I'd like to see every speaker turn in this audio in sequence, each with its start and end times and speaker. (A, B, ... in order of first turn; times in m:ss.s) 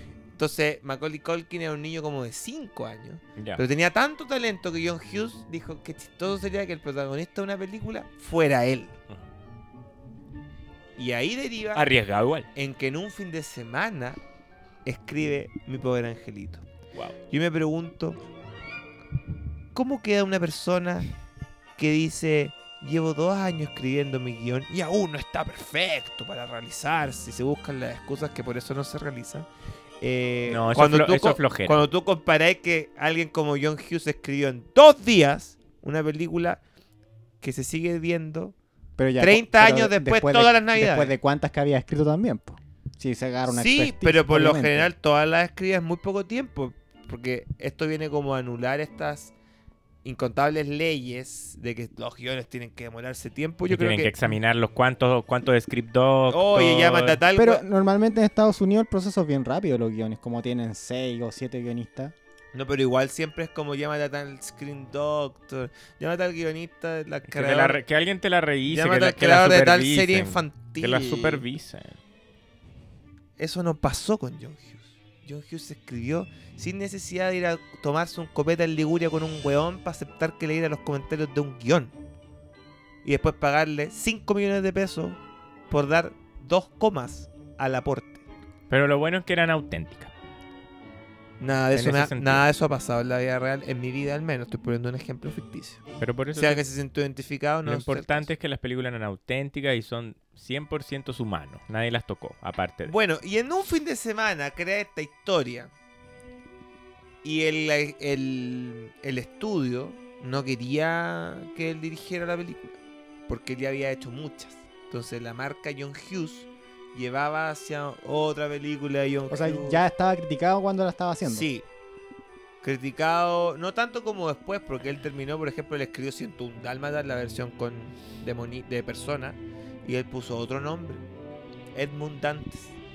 0:00.3-0:09.0 A
0:03.4-0:03.6 B
0:11.0-0:11.9 A
0:11.7-0:12.5 B
0:12.5-0:14.2 A
0:14.8-0:16.6 A
0:17.3-0:18.2 A
0:19.7-0:21.1 A
0:21.8-0:29.5 A
0:30.0-0:36.6 A
0:30.5-0:31.8 B
0:37.4-0:38.5 A
0:39.0-0:44.9 C
0:39.2-0:41.1 A
0:43.4-0:49.3 A
0:50.0-0:54.1 A
0:53.7-0:57.2 B
0:56.3-0:57.6 A
0:57.4-1:02.1 C
1:02.5-1:07.8 A
1:07.3-1:12.0 B
1:08.7-1:11.4 A
1:13.4-1:21.9 A
1:23.0-1:25.2 A
1:25.7-1:28.2 A
1:28.7-1:30.1 B
1:31.4-1:35.8 A
1:31.7-1:32.4 B
1:36.0-1:36.6 B
1:36.3-1:38.3 A
1:37.6-1:42.9 B
1:42.9-1:45.7 A
1:47.2-1:52.7 A
1:53.3-1:59.8 A
1:59.3-2:01.5 C
2:01.2-2:01.6 A
2:02.6-2:11.0 A
2:11.7-2:12.8 A